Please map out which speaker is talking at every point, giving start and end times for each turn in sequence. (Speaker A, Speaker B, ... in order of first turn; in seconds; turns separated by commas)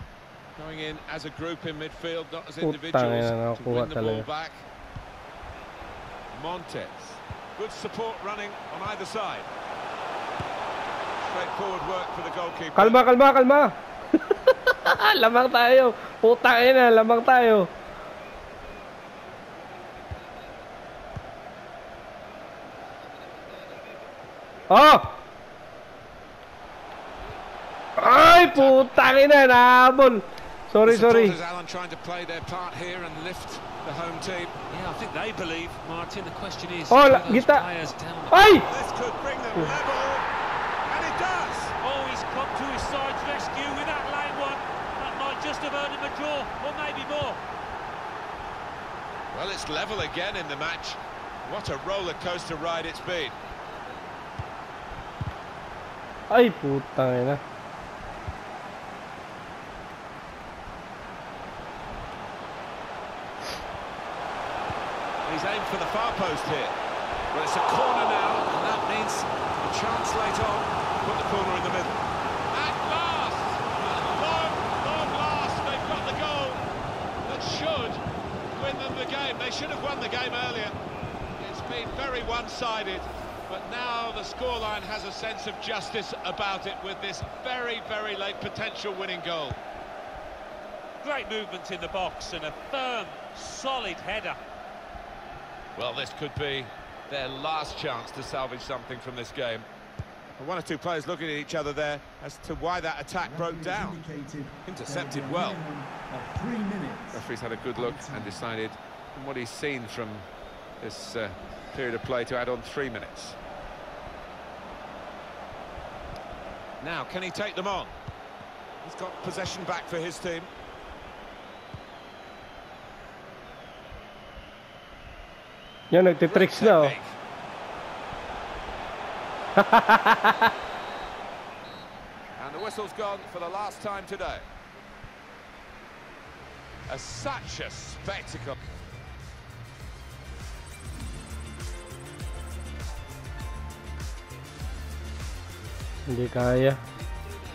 Speaker A: 0.6-4.7, Speaker B: 2.6-4.3, Speaker A: 6.3-9.5, Speaker A: 11.2-13.0, Speaker B: 12.8-17.7, Speaker B: 24.7-25.2, Speaker B: 28.0-31.4, Speaker A: 28.2-28.9, Speaker A: 30.8-34.6, Speaker C: 34.7-38.4, Speaker B: 36.9-37.7, Speaker B: 38.3-38.7, Speaker A: 38.7-40.3, Speaker A: 40.9-41.8, Speaker C: 41.8-47.4, Speaker A: 49.3-53.4, Speaker B: 56.3-57.4, Speaker A: 65.2-66.8, Speaker A: 67.3-72.0, Speaker A: 72.5-76.6, Speaker A: 77.2-80.8, Speaker A: 81.4-89.6, Speaker C: 91.0-94.4, Speaker A: 95.8-99.7, Speaker A: 100.4-104.1, Speaker D: 103.3-107.2, Speaker A: 104.6-105.7, Speaker A: 107.1-110.3, Speaker D: 107.8-108.4, Speaker A: 110.8-113.4, Speaker A: 116.8-117.9, Speaker A: 118.8-120.5, Speaker B: 125.9-127.0, Speaker A: 126.2-127.2, Speaker B: 129.6-130.5, Speaker A: 132.4-134.5, Speaker A: 136.9-138.6, Speaker B: 146.1-146.8